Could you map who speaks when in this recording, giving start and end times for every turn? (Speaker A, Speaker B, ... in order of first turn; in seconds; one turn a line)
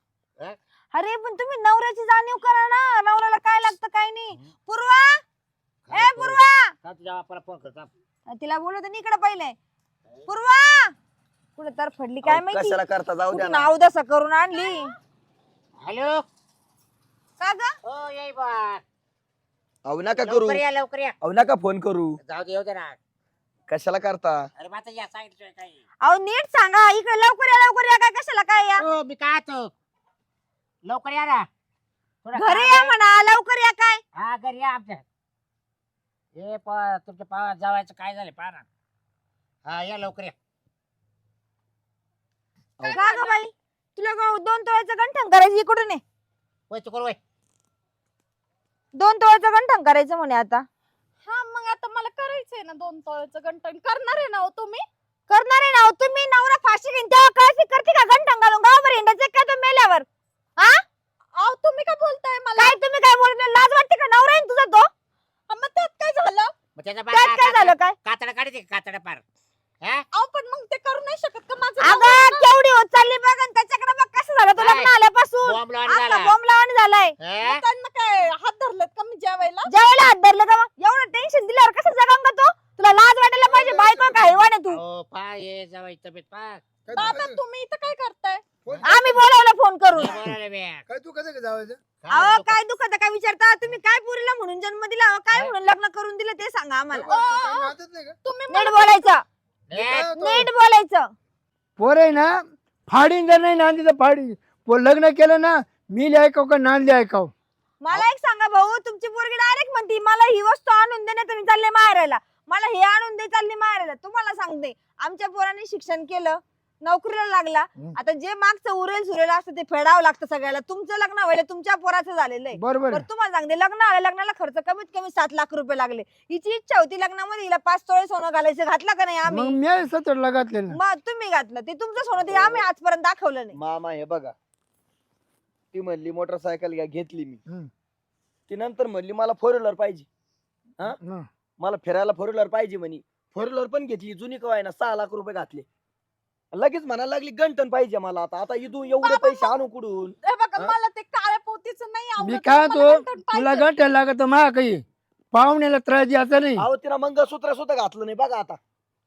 Speaker A: 0.9-5.2
Speaker B: 5.8-7.9
Speaker A: 5.9-6.7
Speaker A: 8.3-9.6
Speaker A: 10.3-10.9
Speaker A: 11.6-12.8
Speaker C: 12.2-13.7
Speaker A: 13.3-14.9
Speaker B: 15.8-16.2
Speaker A: 17.4-17.7
Speaker B: 17.8-18.8
Speaker C: 19.8-20.6
Speaker B: 20.1-21.1
Speaker C: 21.2-22.2
Speaker B: 22.2-23.0
Speaker C: 23.7-24.4
Speaker B: 24.6-25.8
Speaker A: 26.0-28.9
Speaker B: 28.8-29.7
Speaker B: 30.8-31.5
Speaker B: 32.2-32.9
Speaker A: 32.3-34.0
Speaker B: 34.1-35.0
Speaker B: 36.4-38.6
Speaker B: 39.6-40.3
Speaker D: 42.8-43.4
Speaker A: 42.9-46.0
Speaker B: 46.7-47.2
Speaker A: 48.9-50.6
Speaker D: 51.2-54.9
Speaker A: 55.3-60.1
Speaker A: 60.6-60.8
Speaker D: 61.4-62.8
Speaker A: 62.6-64.9
Speaker D: 65.5-66.5
Speaker B: 66.8-69.2
Speaker A: 67.1-68.0
Speaker D: 70.1-72.5
Speaker A: 71.8-77.1
Speaker B: 74.5-74.9
Speaker B: 75.4-76.3
Speaker B: 77.2-77.6
Speaker D: 77.4-79.7
Speaker A: 79.7-84.8
Speaker E: 83.4-84.5
Speaker B: 84.7-86.8
Speaker E: 86.8-87.4
Speaker D: 86.9-88.4
Speaker E: 88.6-89.2
Speaker A: 88.8-90.2
Speaker B: 89.9-90.8
Speaker E: 90.9-91.8
Speaker B: 92.0-92.6
Speaker A: 92.1-97.1
Speaker E: 96.9-98.2
Speaker D: 97.0-97.7
Speaker D: 98.2-99.0
Speaker A: 98.5-99.2
Speaker B: 99.7-100.1
Speaker E: 99.7-100.5
Speaker A: 100.1-101.1
Speaker E: 101.8-107.3
Speaker A: 107.8-129.6
Speaker E: 122.5-123.0
Speaker E: 129.2-130.8
Speaker A: 130.7-133.6
Speaker C: 132.2-132.7
Speaker C: 133.5-134.3
Speaker C: 135.7-137.4
Speaker C: 138.5-140.1
Speaker E: 140.9-141.3
Speaker C: 141.6-145.7
Speaker C: 146.5-150.7
Speaker D: 148.8-149.6
Speaker D: 150.2-153.7
Speaker E: 152.2-156.7
Speaker C: 156.6-158.6